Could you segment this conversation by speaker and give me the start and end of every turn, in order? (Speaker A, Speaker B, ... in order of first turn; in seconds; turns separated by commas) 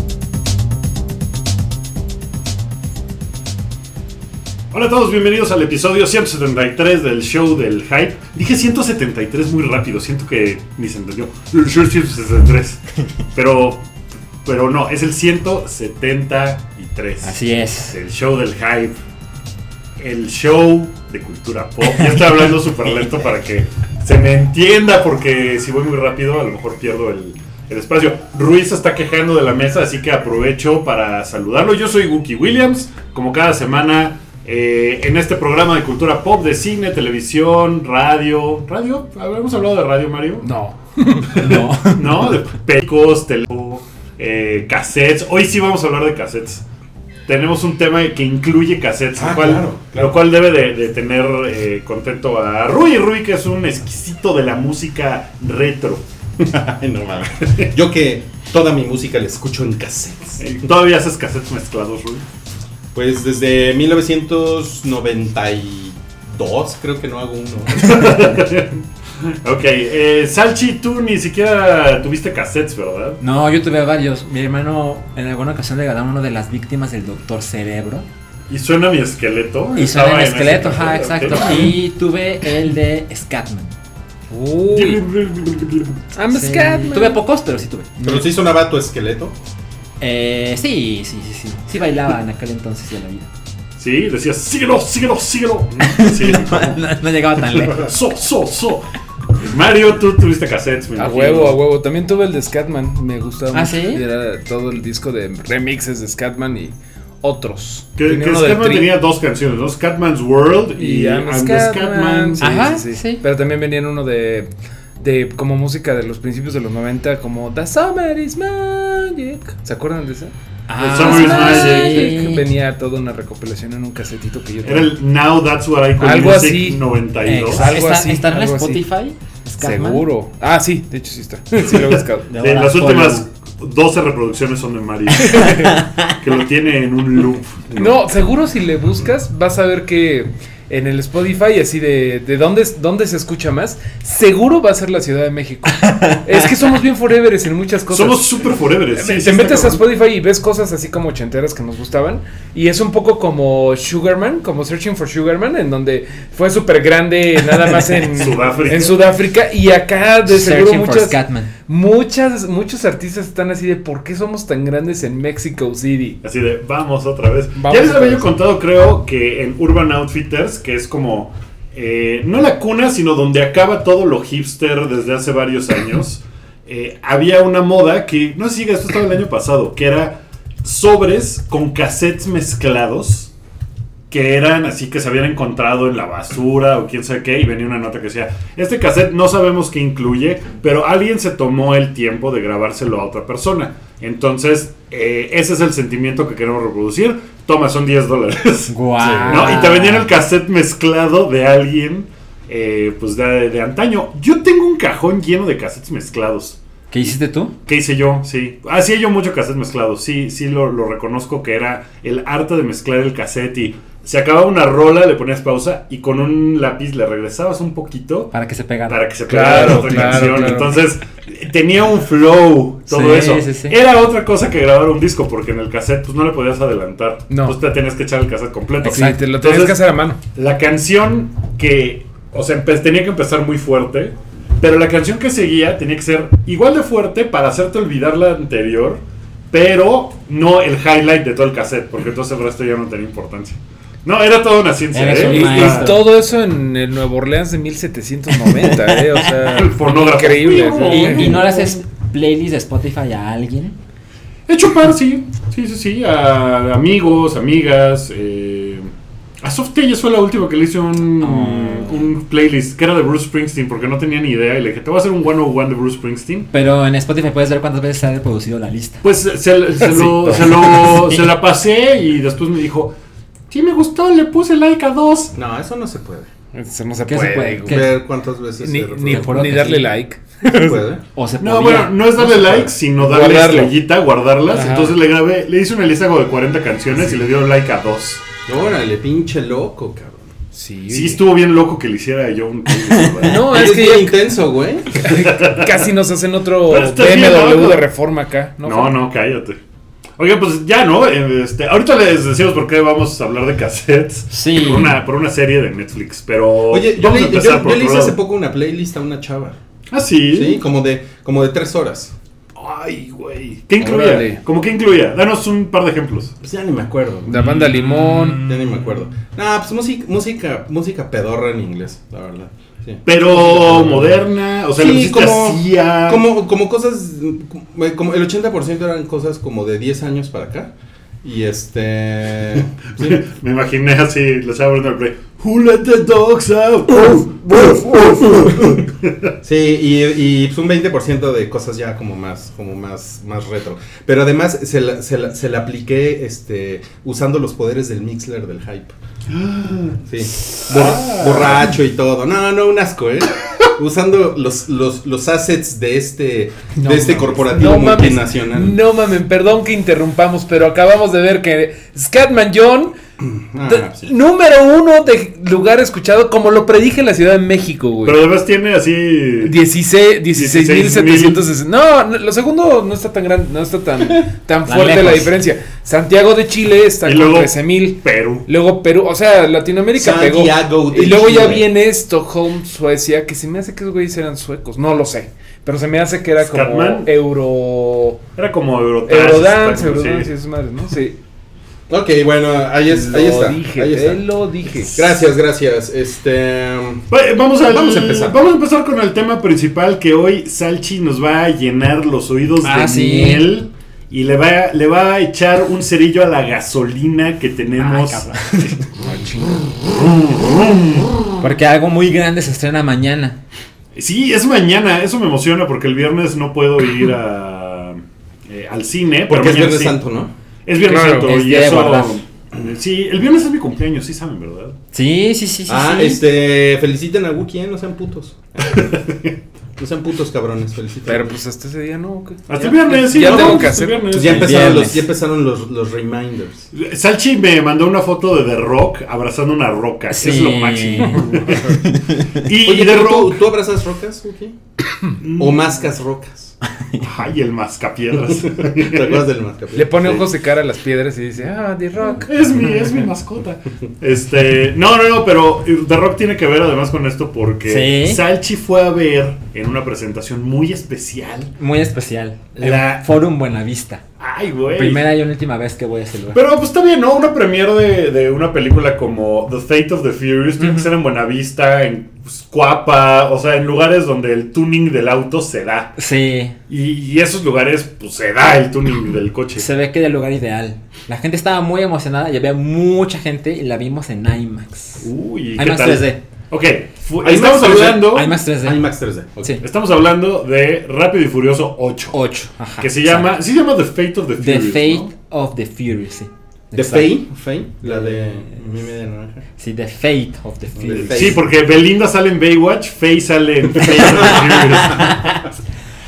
Speaker A: 4.7-12.8, Speaker A: 13.3-13.8, Speaker A: 14.4-19.0, Speaker B: 17.2-18.0, Speaker A: 20.0-40.5, Speaker B: 21.8-22.5, Speaker C: 40.4-41.6, Speaker B: 41.3-42.4, Speaker A: 41.9-46.6, Speaker A: 47.3-56.5, Speaker D: 49.2-50.1, Speaker D: 56.5-60.4, Speaker A: 60.4-62.2, Speaker D: 62.9-68.4, Speaker A: 67.8-73.2, Speaker B: 73.2-78.1, Speaker A: 78.5-81.7, Speaker B: 79.8-83.8, Speaker C: 84.3-85.0, Speaker A: 84.7-86.0, Speaker C: 86.2-87.2, Speaker B: 86.3-87.9, Speaker D: 88.0-89.3, Speaker C: 88.0-88.3, Speaker B: 90.0-93.3, Speaker A: 93.8-96.8, Speaker B: 95.8-97.9, Speaker A: 97.6-98.9, Speaker A: 99.4-101.6, Speaker C: 101.0-108.9, Speaker B: 103.5-104.0, Speaker A: 108.0-112.5, Speaker C: 110.8-125.0, Speaker B: 112.4-113.2, Speaker B: 120.7-122.5, Speaker A: 120.8-122.2, Speaker A: 124.6-127.7, Speaker C: 126.0-126.8, Speaker B: 127.2-130.1, Speaker C: 127.5-128.9, Speaker C: 129.6-132.3, Speaker A: 131.7-137.8, Speaker B: 132.3-133.3, Speaker C: 135.3-135.7, Speaker B: 135.3-136.1, Speaker C: 137.8-148.4, Speaker B: 145.8-146.2, Speaker A: 147.9-149.8, Speaker C: 148.9-166.2, Speaker A: 158.1-159.1, Speaker B: 160.3-161.5, Speaker A: 166.2-183.3, Speaker C: 167.6-168.3, Speaker A: 184.1-206.6, Speaker B: 198.7-200.1, Speaker C: 199.0-199.6, Speaker B: 206.9-207.5, Speaker A: 207.7-218.3, Speaker B: 218.3-219.0, Speaker A: 218.9-229.8, Speaker C: 219.3-220.8, Speaker B: 219.5-220.0, Speaker B: 222.9-223.8, Speaker C: 227.3-227.6, Speaker B: 228.8-229.2, Speaker C: 228.8-230.2, Speaker A: 230.3-245.9, Speaker B: 244.9-246.1, Speaker C: 245.2-251.4, Speaker B: 248.5-249.2, Speaker A: 249.4-251.8, Speaker B: 250.8-253.8, Speaker A: 254.5-266.5, Speaker B: 261.2-262.1, Speaker B: 266.5-269.0, Speaker A: 269.0-272.9, Speaker C: 269.9-270.3, Speaker B: 270.2-271.3, Speaker A: 273.5-275.3, Speaker D: 275.4-276.3, Speaker C: 276.5-277.9, Speaker B: 277.1-277.9, Speaker D: 277.7-279.6, Speaker C: 278.6-280.9, Speaker B: 279.0-279.9, Speaker D: 280.5-281.0, Speaker B: 281.1-282.0, Speaker A: 281.4-288.2, Speaker C: 283.0-283.8, Speaker C: 284.5-285.0, Speaker D: 288.5-290.3, Speaker C: 290.5-291.2, Speaker A: 290.9-293.4, Speaker C: 293.2-294.3, Speaker D: 293.4-295.0, Speaker C: 295.0-299.0, Speaker A: 295.0-295.9, Speaker A: 296.7-297.8, Speaker A: 298.6-299.6, Speaker A: 300.2-308.2, Speaker B: 304.3-304.9, Speaker D: 306.7-309.6, Speaker A: 309.9-310.6, Speaker D: 310.3-312.1, Speaker A: 312.6-316.4, Speaker C: 313.8-314.4, Speaker D: 316.4-317.5, Speaker C: 317.2-318.5, Speaker A: 317.5-318.8, Speaker D: 318.4-324.2, Speaker A: 323.1-326.3, Speaker D: 324.8-333.2, Speaker A: 333.0-339.3, Speaker D: 339.4-349.0, Speaker A: 349.3-351.6, Speaker D: 350.1-358.8, Speaker C: 356.8-362.9, Speaker D: 363.2-364.1, Speaker C: 363.6-368.2, Speaker A: 368.1-369.6, Speaker C: 369.4-388.2, Speaker A: 370.3-371.4, Speaker B: 374.7-375.3, Speaker A: 377.0-378.5, Speaker D: 379.9-381.7, Speaker A: 386.4-387.1, Speaker A: 388.4-390.3, Speaker C: 389.1-391.2, Speaker D: 391.9-394.2, Speaker C: 392.9-395.2, Speaker D: 394.8-397.1, Speaker A: 397.1-408.8, Speaker D: 397.6-398.4, Speaker B: 402.6-403.5, Speaker B: 407.8-408.8, Speaker C: 409.0-409.7, Speaker A: 409.9-411.1, Speaker B: 411.4-413.4, Speaker A: 413.9-420.0, Speaker D: 419.3-420.3, Speaker A: 420.7-424.8, Speaker C: 420.8-421.3, Speaker B: 421.2-422.2, Speaker B: 424.9-426.2, Speaker D: 425.7-429.2, Speaker D: 429.8-431.4, Speaker C: 431.1-434.2, Speaker A: 432.5-434.6, Speaker D: 433.2-436.7, Speaker B: 434.3-435.1, Speaker A: 436.7-441.8, Speaker B: 440.1-442.4, Speaker C: 441.1-441.6, Speaker A: 442.4-443.4, Speaker D: 442.6-444.6, Speaker A: 445.2-445.8, Speaker D: 445.4-446.6, Speaker B: 446.8-447.1, Speaker A: 447.0-449.2, Speaker D: 448.4-450.0, Speaker C: 449.7-452.3, Speaker A: 450.0-450.3, Speaker A: 452.1-461.5, Speaker B: 457.7-458.2, Speaker B: 461.6-464.0, Speaker A: 462.6-463.1, Speaker A: 464.2-465.1, Speaker B: 464.8-466.4, Speaker A: 466.3-475.9, Speaker B: 470.6-470.9, Speaker B: 476.0-476.6, Speaker A: 476.7-479.7, Speaker B: 479.6-486.2, Speaker A: 485.0-488.3, Speaker D: 487.2-489.6, Speaker B: 488.1-488.9, Speaker A: 489.6-492.1, Speaker B: 492.1-493.3, Speaker A: 492.8-495.1, Speaker B: 494.4-497.2, Speaker D: 496.8-499.4, Speaker B: 497.8-498.6, Speaker B: 499.6-501.4, Speaker D: 500.8-501.4, Speaker A: 500.9-505.2, Speaker B: 503.8-505.4